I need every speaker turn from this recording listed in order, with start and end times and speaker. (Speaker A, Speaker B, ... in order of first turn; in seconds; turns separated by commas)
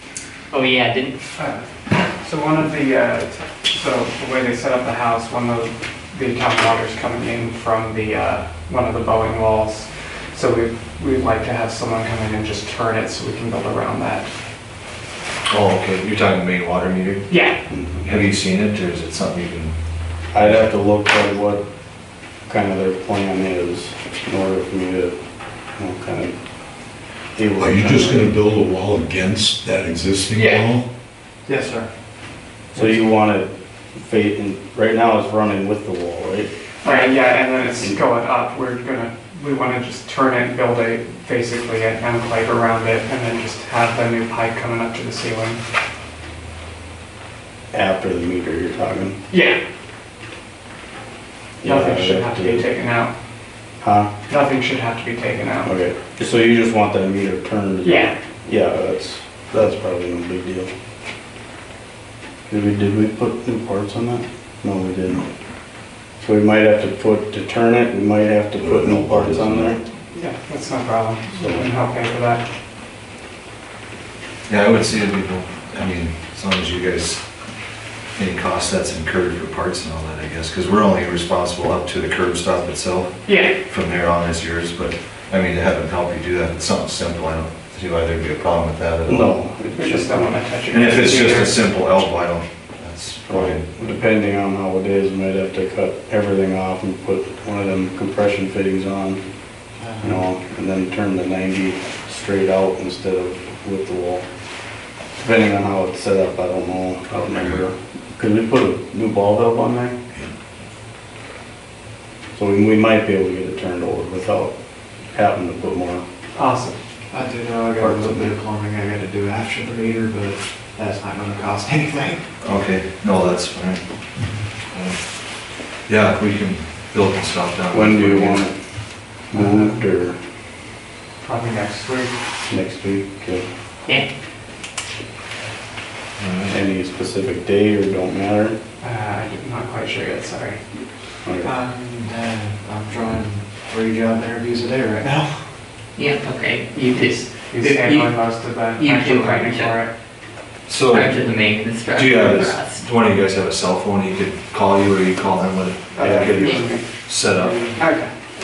Speaker A: 0.5-1.2, Speaker B: 1.4-14.3, Speaker C: 15.5-17.3, Speaker B: 17.3-17.6, Speaker D: 17.7-18.1, Speaker C: 18.0-19.7, Speaker D: 20.3-21.6, Speaker C: 20.4-20.7, Speaker D: 22.5-25.1, Speaker D: 25.8-26.4, Speaker D: 27.4-28.4, Speaker E: 27.6-30.9, Speaker B: 30.4-30.7, Speaker F: 31.5-31.9, Speaker D: 32.7-36.5, Speaker B: 36.8-45.6, Speaker D: 47.7-49.2, Speaker B: 49.3-49.6, Speaker D: 51.6-52.7, Speaker B: 51.6-53.1, Speaker D: 53.8-54.1, Speaker B: 54.3-55.7, Speaker D: 55.6-60.7, Speaker B: 57.8-58.1, Speaker D: 62.5-65.3, Speaker D: 66.2-69.8, Speaker E: 68.6-69.8, Speaker B: 70.1-72.4, Speaker D: 71.4-71.7, Speaker C: 74.5-77.2, Speaker C: 78.2-89.3, Speaker B: 83.3-83.6, Speaker D: 89.1-90.3, Speaker B: 89.7-91.6, Speaker C: 90.7-94.0, Speaker D: 93.3-99.2, Speaker F: 99.8-100.3, Speaker D: 100.0-104.3, Speaker D: 105.2-110.0, Speaker D: 112.3-114.5, Speaker D: 115.1-116.0, Speaker B: 116.3-116.8, Speaker F: 117.1-122.2, Speaker D: 117.8-118.3, Speaker C: 122.4-123.8, Speaker C: 124.7-125.1, Speaker C: 125.9-128.5, Speaker D: 127.7-128.6, Speaker D: 129.3-130.2, Speaker B: 129.3-129.8, Speaker B: 131.2-132.1, Speaker D: 132.5-133.4, Speaker C: 136.2-136.6, Speaker D: 136.5-138.6, Speaker B: 138.8-140.6, Speaker D: 141.2-141.5, Speaker F: 141.4-145.3, Speaker A: 146.0-148.1, Speaker B: 146.9-149.9, Speaker A: 148.8-149.7, Speaker C: 150.7-151.3, Speaker A: 150.9-152.8, Speaker C: 151.9-157.7, Speaker B: 155.9-156.8, Speaker D: 156.0-156.6, Speaker B: 157.8-158.1